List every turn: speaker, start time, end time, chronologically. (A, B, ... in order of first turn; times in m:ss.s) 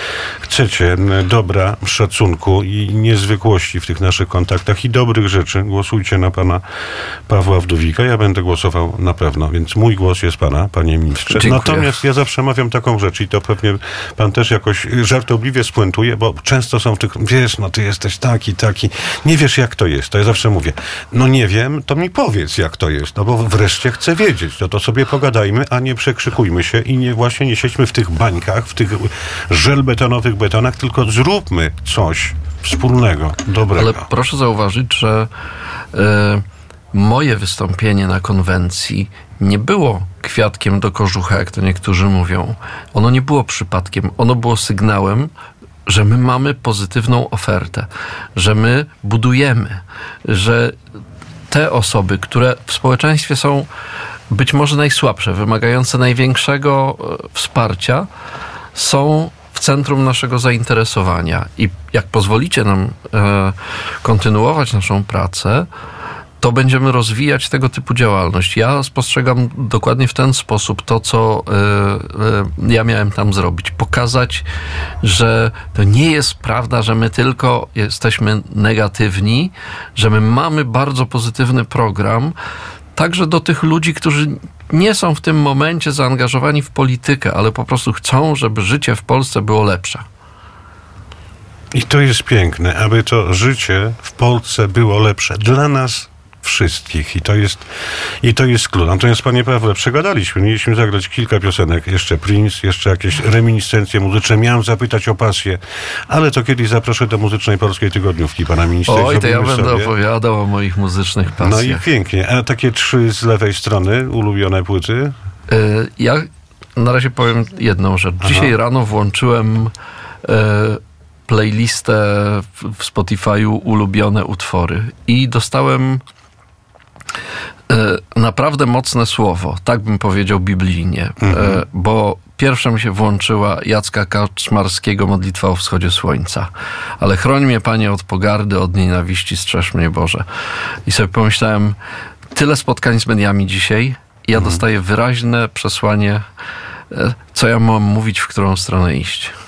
0:00.4-0:06.6 A
0:07.3-0:34.1 A
0:11.3-0:11.9 B
0:33.7-0:35.3 B
0:35.9-0:45.3 B
0:45.8-0:50.8 B
0:51.5-0:53.7 B
0:54.3-0:58.1 B
0:58.7-1:05.7 B
1:06.4-1:14.4 B
1:15.0-1:22.3 B
1:23.0-1:30.0 B
1:31.7-1:37.7 A
1:38.2-1:49.9 A
1:48.9-1:51.8 B
1:51.4-1:55.1 A
1:55.5-1:59.7 B
1:58.2-1:58.5 A
2:00.2-2:06.0 B
2:07.7-2:20.2 B
2:11.2-2:11.6 A
2:20.8-2:21.8 B
2:22.3-2:26.2 B
2:24.3-2:24.6 A
2:26.9-2:29.3 B